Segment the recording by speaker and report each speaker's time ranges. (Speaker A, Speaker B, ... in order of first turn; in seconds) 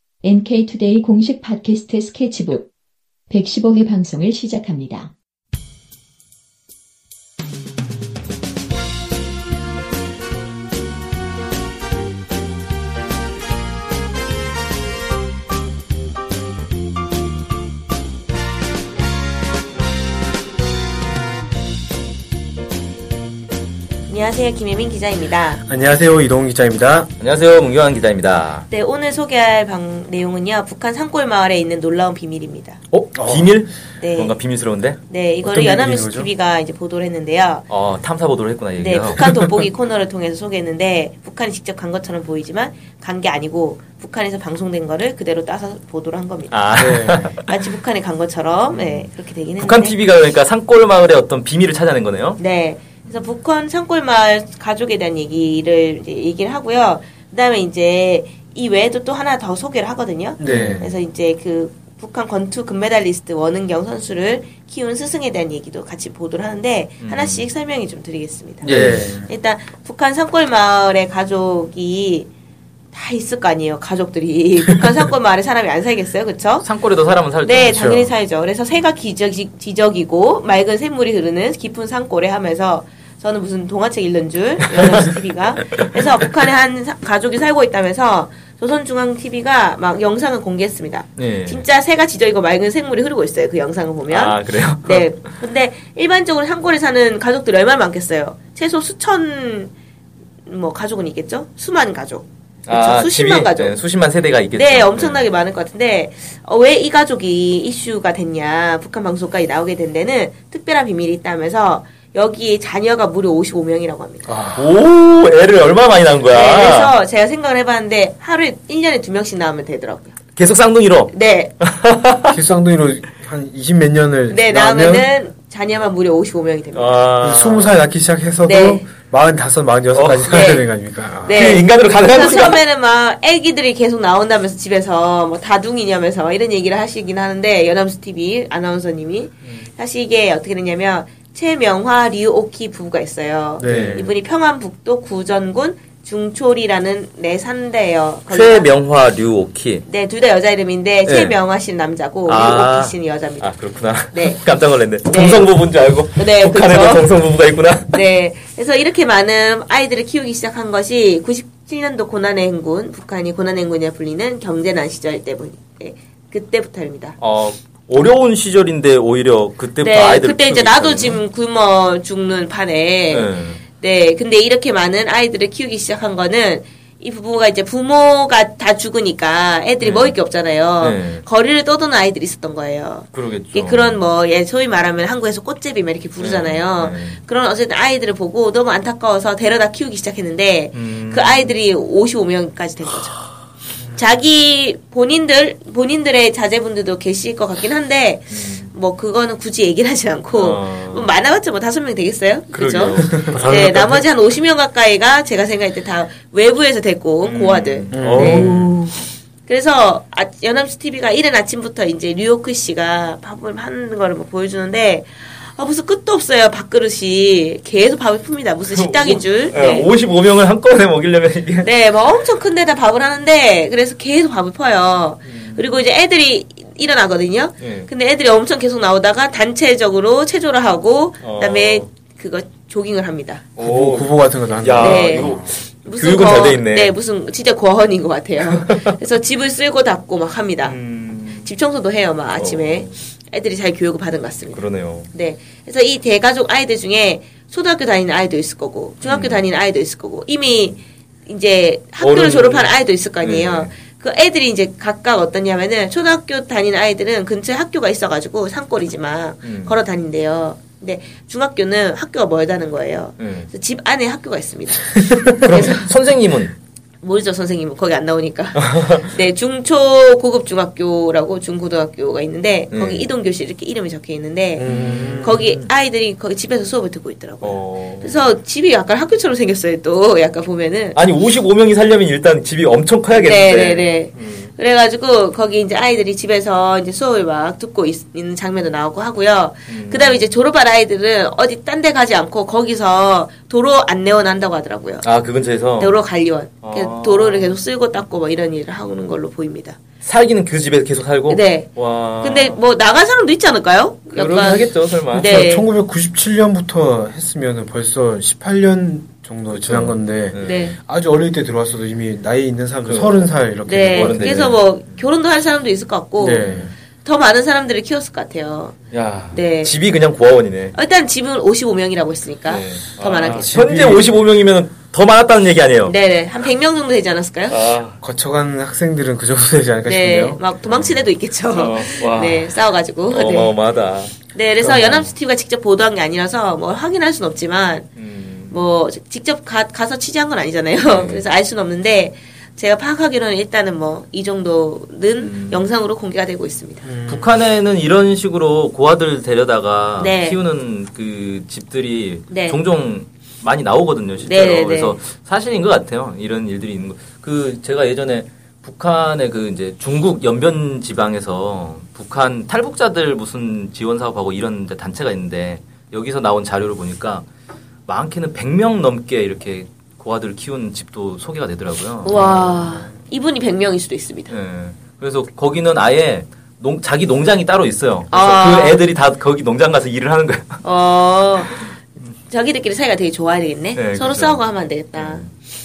Speaker A: 0.2-2.7, 3.3-5.1
Speaker B: 24.1-25.6, 28.7-32.8, 34.0-34.4, 35.1-37.6, 38.8-46.9, 47.4-50.0, 52.4-68.7, 69.2-72.3, 72.9-76.7, 77.4-99.7, 100.5-103.8, 104.5-114.3, 116.3-120.2, 121.1-121.5, 124.3-127.0, 128.4-128.8, 130.3-130.7, 131.2-148.7, 149.8-153.5, 154.1-154.4, 155.0-155.5, 156.2-157.1, 157.9-167.2, 169.8-193.2, 193.9-208.5, 209.4-219.9, 221.6-233.4, 234.8-240.8, 241.4-265.9, 267.0-281.0, 283.1-295.1, 295.8-299.8, 301.3-305.7, 310.4-310.8, 313.6-318.8, 319.3-319.8, 320.7-323.6, 325.8-327.6, 329.9-333.5, 334.3-337.9, 338.5-346.9, 350.0-350.4, 352.3-352.6, 354.2-355.0, 372.0-374.3, 378.1-378.8, 380.6-381.6, 382.3-385.3
Speaker C: 25.6-27.1, 33.1-33.6, 35.4-36.3, 46.7-47.3, 60.4-60.9, 68.7-69.3, 77.7-78.1, 114.2-114.7, 122.3-125.1, 127.2-131.5, 143.6-144.1, 207.9-208.7, 233.6-235.6, 274.6-275.4, 305.2-314.6, 316.2-316.7, 323.3-324.1, 328.0-330.6, 346.8-347.3
Speaker D: 27.2-28.7, 32.9-35.0, 37.7-39.4, 46.5-47.5, 48.7-52.4, 60.4-60.9, 67.0-67.5, 68.6-69.1, 76.6-78.0, 91.2-91.6, 94.1-95.2, 102.7-105.3, 114.5-116.9, 120.3-122.4, 126.7-127.8, 129.9-130.6, 131.3-132.6, 143.6-144.1, 148.3-149.8, 151.0-151.4, 152.3-158.0, 167.2-171.2, 173.1-173.6, 179.8-180.2, 180.8-181.2, 183.1-184.0, 186.2-187.2, 190.7-191.5, 198.3-198.7, 200.3-201.1, 202.5-204.1, 207.2-209.0, 218.7-221.7, 225.2-225.7, 227.6-227.9, 231.2-231.9, 233.6-237.0, 238.4-238.9, 240.6-241.5, 242.3-243.0, 244.5-245.1, 249.0-249.4, 252.0-253.8, 259.4-259.8, 263.2-263.5, 265.4-266.6, 268.7-269.0, 272.7-273.1, 274.6-275.7, 277.4-278.3, 280.9-284.5, 289.7-290.3, 295.0-296.0, 296.6-297.6, 300.0-302.6, 304.1-305.5, 309.5-310.8, 312.8-313.3, 313.9-314.7, 316.4-316.7, 318.9-320.8, 322.5-325.9, 327.5-328.0, 330.6-332.6, 333.1-335.1, 337.9-338.6, 340.8-341.2, 345.2-345.6, 347.1-367.2, 367.9-372.9, 374.3-380.6, 383.7-385.3